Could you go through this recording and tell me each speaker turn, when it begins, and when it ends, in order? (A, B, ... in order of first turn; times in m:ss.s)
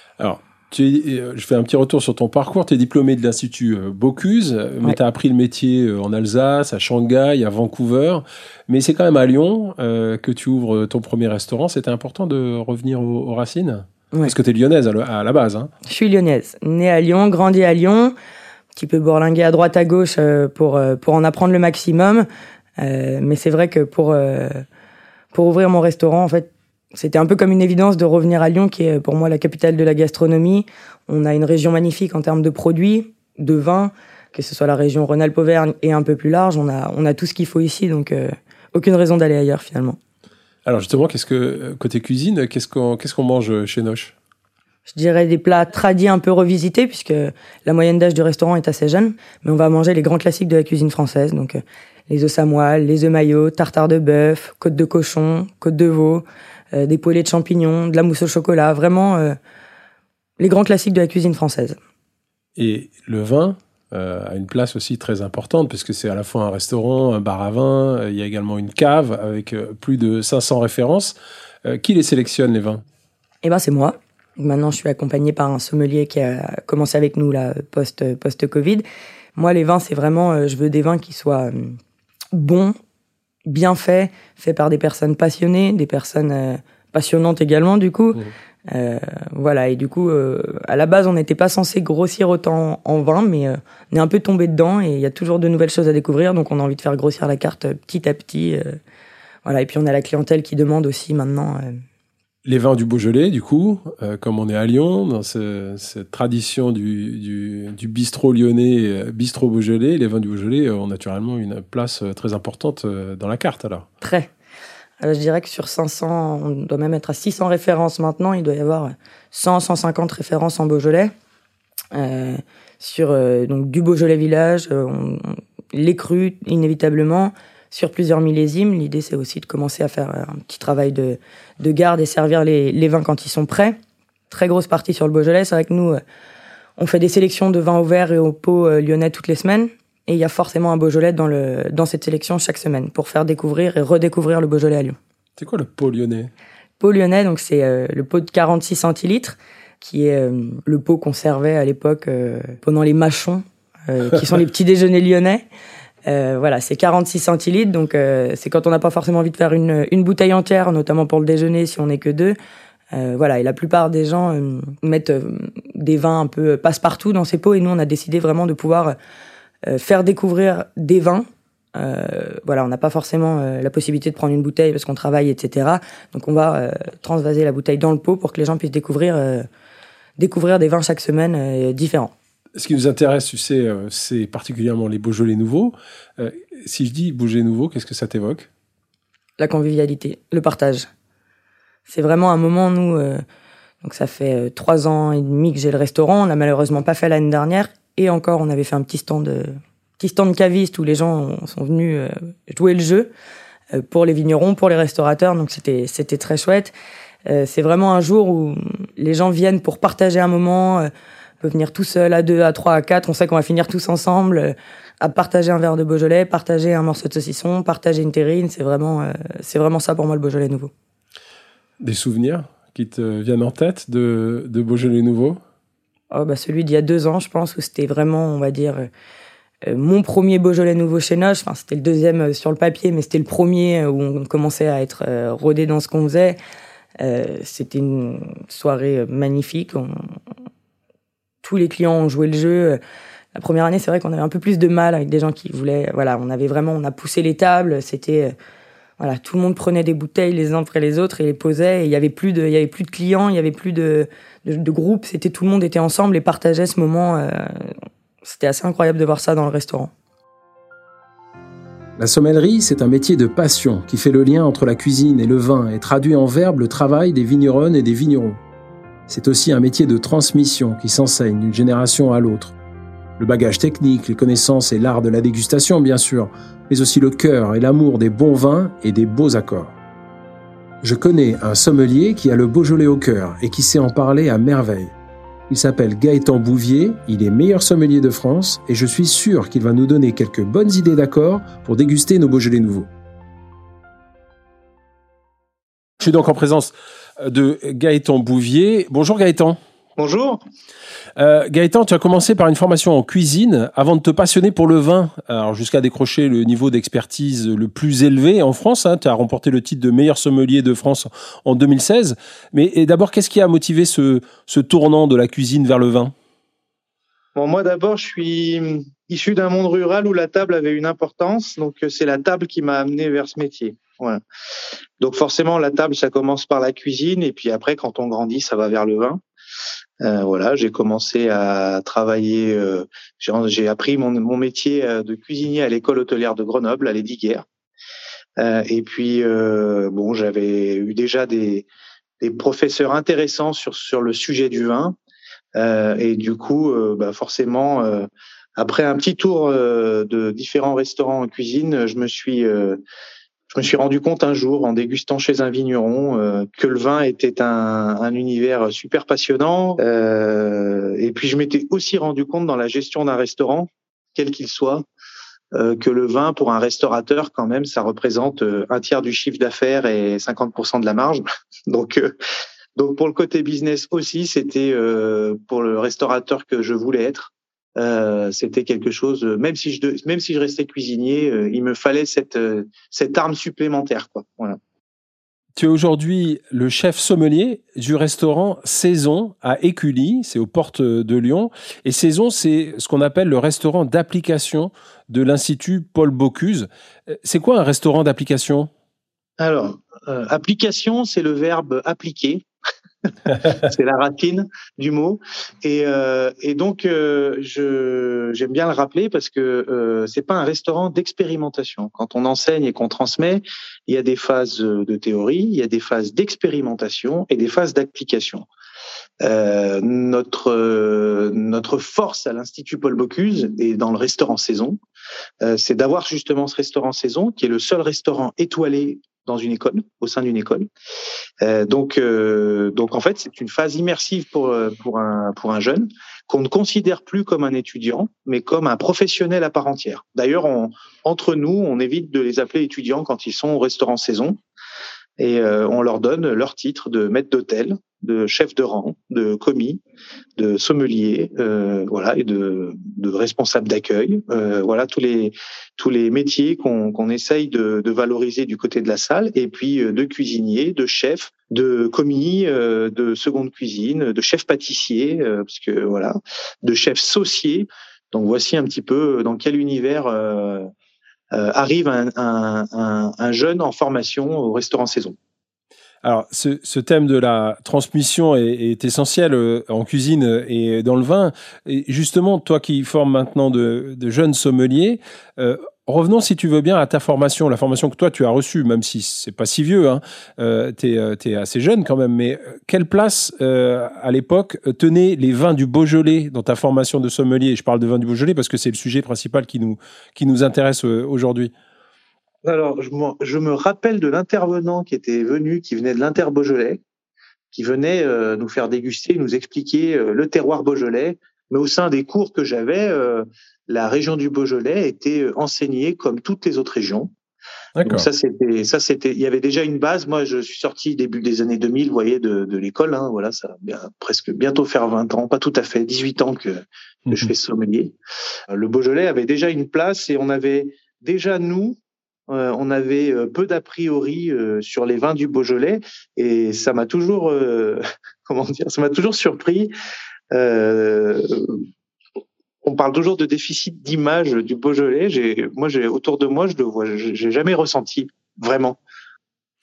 0:00.2-0:15.7 A
0:15.9-0:18.1 B
0:18.8-0:22.3 B
0:22.8-0:24.6 B
0:25.3-0:40.0 B
0:40.7-0:44.2 A
0:44.9-0:59.4 B
1:00.4-1:01.8 B
1:02.6-1:11.2 A
1:11.6-1:12.8 A
1:13.4-1:18.8 B
1:19.4-1:21.8 B
1:22.3-1:22.8 B
1:23.5-1:38.8 B
1:39.4-1:41.8 B
1:42.5-1:53.9 A
1:54.0-1:54.3 B
1:55.0-2:01.1 B
2:01.9-2:13.8 B
2:14.3-2:16.0 B
2:16.8-2:25.0 B
2:25.4-2:26.3 A
2:26.8-2:35.4 B
2:36.1-2:42.4 B
2:42.9-2:49.0 B
2:49.7-2:59.5 B
3:00.2-3:02.1 B
3:02.6-3:08.5 A
3:09.4-3:10.9 B
3:11.9-3:13.2 B
3:13.8-3:23.1 B
3:23.7-3:26.7 B
3:27.3-3:30.9 B
3:31.4-3:40.7 B
3:41.8-3:45.4 A
3:46.1-3:48.9 B
3:49.6-3:56.4 B
3:57.0-4:00.2 B
4:01.4-4:02.8 B
4:03.4-4:08.4 B
4:09.0-4:19.9 B
4:22.0-4:28.4 A
4:29.1-4:32.6 A
4:33.2-4:39.8 A
4:40.8-4:45.0 A
4:45.5-4:52.9 A
4:56.0-4:59.6 A
5:00.0-5:00.4 C
5:01.2-5:16.1 A
5:17.4-5:24.2 C
5:25.0-5:29.2 C
5:30.0-5:37.4 C
5:38.4-5:41.7 C
5:42.2-5:45.0 C
5:45.6-5:52.8 C
5:53.5-6:04.8 C
6:05.5-6:12.2 C
6:12.8-6:24.6 C
6:25.6-6:38.7 A
6:39.4-6:42.5 C
6:43.4-6:58.5 C
6:59.2-7:04.8 C
7:05.4-7:10.7 C
7:11.4-7:24.4 C
7:25.2-7:29.8 C
7:30.4-7:50.7 C
7:51.3-7:55.2 C
7:56.0-8:21.5 A
8:22.4-8:26.8 C
8:27.5-8:37.1 C
8:37.8-8:38.1 A
8:37.8-8:47.9 C
8:48.5-8:51.8 C
8:52.3-8:59.7 C
9:00.3-9:01.7 C
9:02.6-9:08.8 C